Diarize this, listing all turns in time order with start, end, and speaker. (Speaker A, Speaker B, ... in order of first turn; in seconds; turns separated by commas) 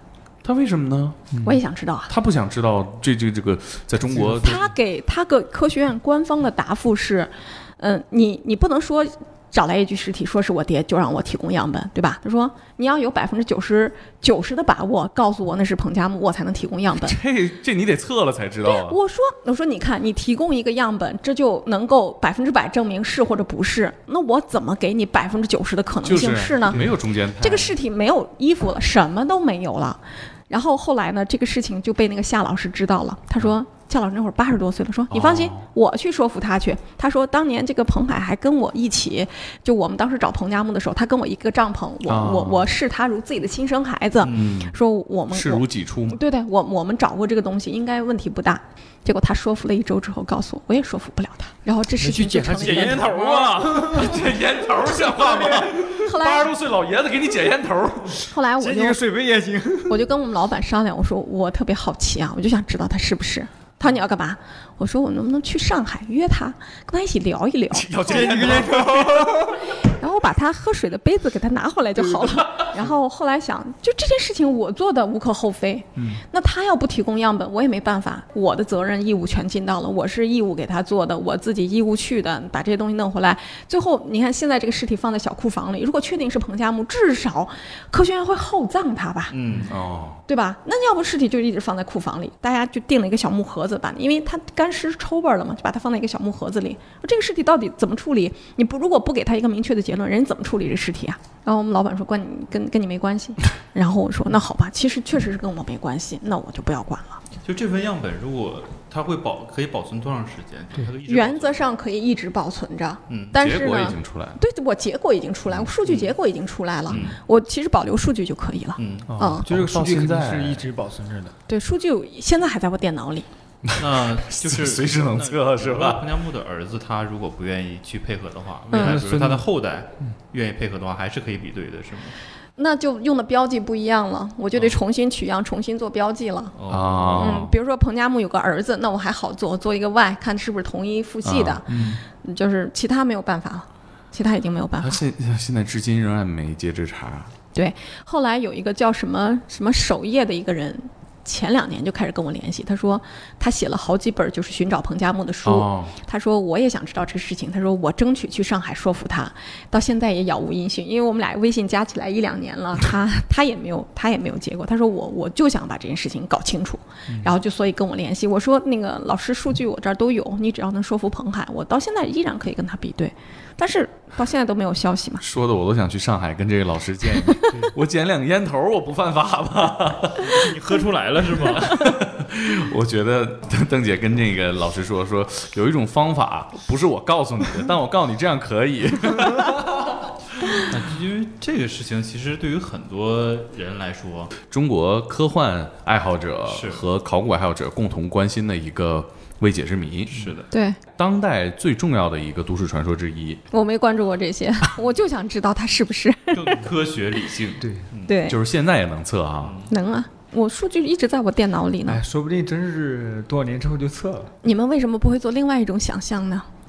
Speaker A: 0.4-1.2, Speaker B: 1.3-1.6, Speaker C: 1.4-2.1, Speaker A: 2.1-4.7, Speaker B: 4.1-4.6, Speaker C: 4.3-17.2, Speaker A: 17.0-19.0, Speaker C: 18.6-26.8, Speaker A: 26.0-27.8, Speaker C: 27.4-53.2, Speaker A: 35.1-35.6, Speaker A: 42.1-42.7, Speaker D: 44.2-44.7, Speaker A: 44.3-44.7, Speaker A: 45.3-46.2, Speaker B: 52.0-54.4, Speaker D: 52.6-53.9, Speaker A: 52.8-58.3, Speaker B: 55.2-55.9, Speaker C: 55.9-56.5, Speaker C: 58.3-59.0, Speaker B: 58.6-60.0, Speaker C: 59.9-68.5, Speaker A: 67.7-69.4, Speaker B: 68.0-69.7, Speaker C: 69.8-89.4, Speaker B: 76.0-76.2, Speaker D: 89.3-89.7, Speaker A: 89.7-90.2, Speaker C: 90.3-107.2, Speaker D: 107.4-111.7, Speaker C: 111.1-119.5, Speaker D: 113.1-113.3, Speaker A: 113.3-114.4, Speaker D: 115.9-116.1, Speaker D: 116.9-117.2, Speaker D: 118.8-119.1, Speaker B: 119.1-121.3, Speaker A: 119.5-120.7, Speaker C: 121.5-123.3, Speaker A: 123.7-126.0, Speaker D: 123.8-132.2, Speaker B: 128.7-129.5, Speaker A: 128.8-129.3, Speaker C: 132.6-136.5, Speaker D: 136.6-137.4, Speaker A: 136.7-137.5, Speaker C: 137.2-145.0, Speaker A: 141.2-141.9, Speaker B: 141.7-142.0, Speaker A: 144.8-147.3, Speaker C: 147.5-175.2, Speaker A: 155.4-155.9, Speaker A: 175.2-180.4, Speaker C: 177.2-177.6, Speaker D: 180.2-182.0, Speaker A: 181.4-189.9, Speaker D: 190.6-194.3, Speaker A: 194.4-200.2, Speaker D: 196.5-196.8, Speaker D: 200.1-200.5, Speaker C: 200.5-200.8, Speaker A: 201.0-203.4, Speaker C: 203.5-206.7, Speaker D: 206.3-208.1, Speaker B: 207.6-207.9, Speaker C: 208.1-208.4, Speaker A: 208.2-209.6, Speaker D: 209.4-209.7, Speaker C: 209.7-212.0, Speaker B: 211.8-214.3, Speaker C: 214.4-216.5